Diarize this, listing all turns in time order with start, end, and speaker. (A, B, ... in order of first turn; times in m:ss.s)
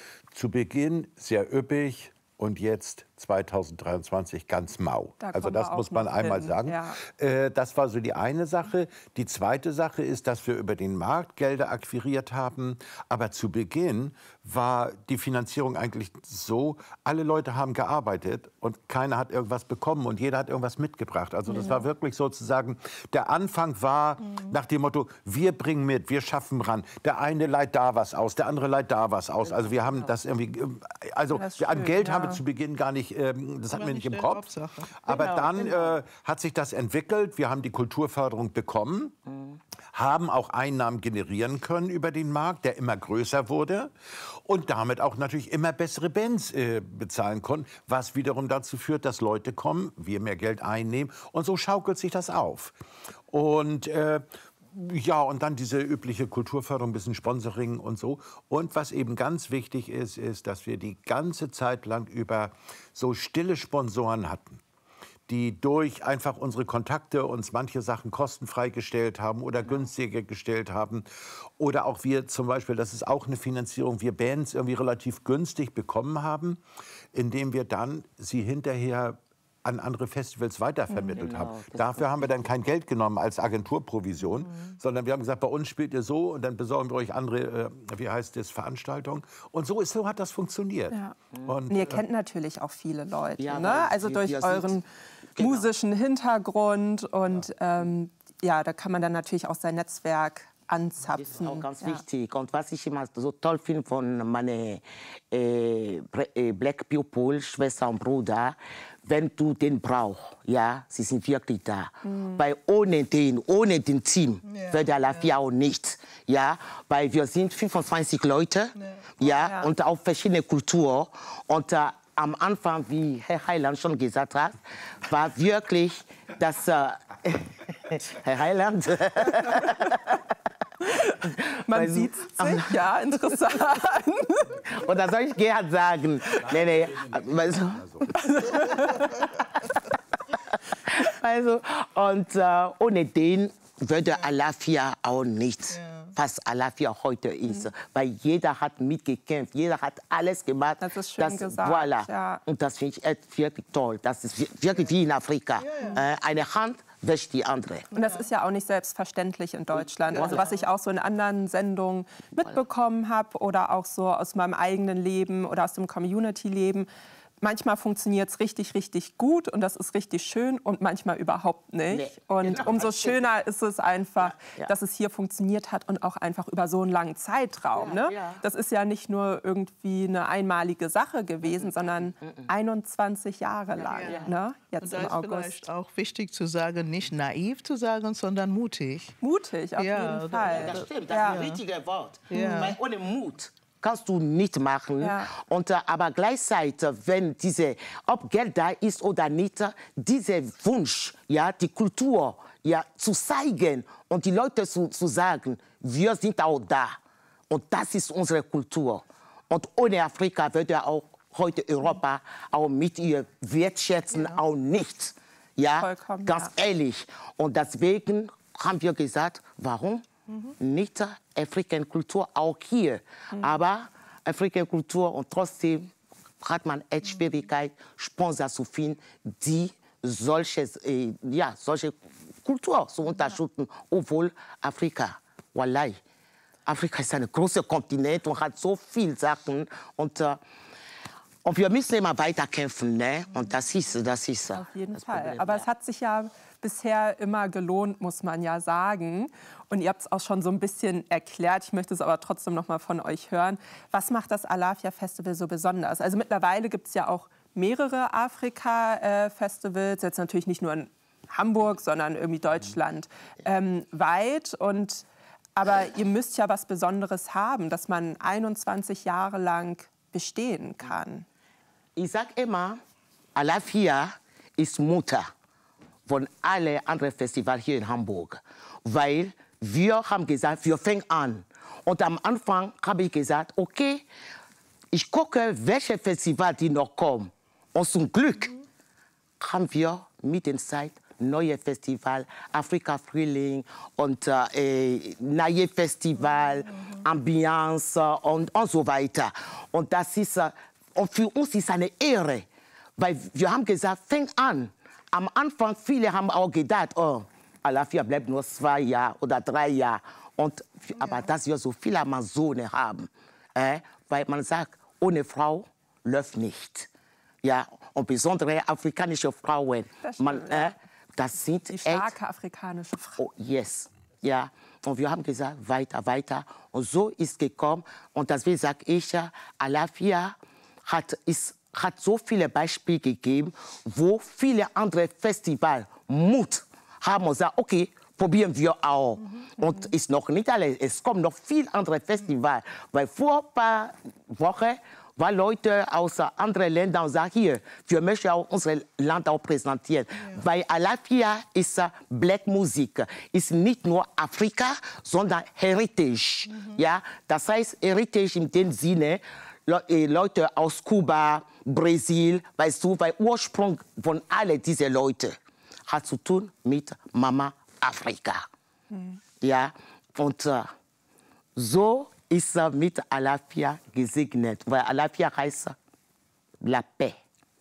0:00.3-0:34.5 A
0:05.2-0:07.0 B
0:21.5-0:21.8 B
0:29.4-0:30.0 C
0:31.3-0:32.4 B
0:33.7-0:34.9 D
0:35.0-0:39.2 A
0:35.1-0:36.0 C
0:39.3-0:39.6 C
0:39.9-0:52.8 A
0:53.3-1:04.6 A
1:05.3-1:16.6 A
1:17.1-1:32.0 A
1:20.9-1:21.2 B
1:21.2-1:22.3 C
1:24.4-1:24.7 D
1:30.9-1:31.2 B
1:31.7-1:34.8 B
1:33.4-1:34.8 C
1:35.4-1:35.7 C
1:35.4-1:42.0 B
1:41.2-2:10.2 C
1:52.0-1:52.4 B
1:54.5-1:55.3 D
1:58.8-1:59.1 D
1:59.2-1:59.7 B
2:10.8-2:14.6 B
2:11.3-2:12.8 C
2:14.7-2:18.1 C
2:16.4-2:18.1 A
2:18.2-2:19.2 B
2:18.5-2:19.2 D
2:20.9-2:37.9 C
2:25.7-2:26.1 D
2:30.8-2:32.4 B
2:35.6-2:36.0 D
2:37.9-2:38.3 D
2:37.9-2:46.9 B
2:40.1-2:40.6 D
2:40.1-2:40.4 C
2:47.4-3:05.7 B
2:51.9-2:53.2 C
2:54.2-2:54.7 C
2:57.8-2:58.4 C
3:01.4-3:02.5 C
3:03.8-3:04.3 C
3:04.0-3:09.2 D
3:09.2-3:11.4 B
3:09.8-3:11.6 D
3:10.5-3:27.0 C
3:12.3-3:12.8 D
3:12.3-3:12.7 B
3:15.0-3:15.3 B
3:27.5-3:40.0 C
3:34.1-3:34.4 D
3:35.8-3:36.5 B
3:40.6-3:45.9 C
3:46.4-3:56.0 C
3:56.7-4:00.4 C
4:01.4-4:05.7 C
4:04.5-4:25.0 B
4:25.6-4:31.2 B
4:32.0-4:32.8 C
4:33.4-4:35.3 C
4:36.1-4:44.0 C
4:44.9-4:48.5 C
4:49.4-5:02.5 C
5:03.0-5:16.9 C
5:17.4-5:22.1 C
5:20.0-5:20.7 B
5:21.7-5:23.2 B
5:23.2-5:30.3 C
5:30.9-6:05.4 C
5:56.5-5:56.8 D
6:05.9-6:08.5 C
6:08.9-6:09.2 B
6:09.4-6:10.7 C
6:11.6-6:15.8 C
6:16.6-6:17.2 C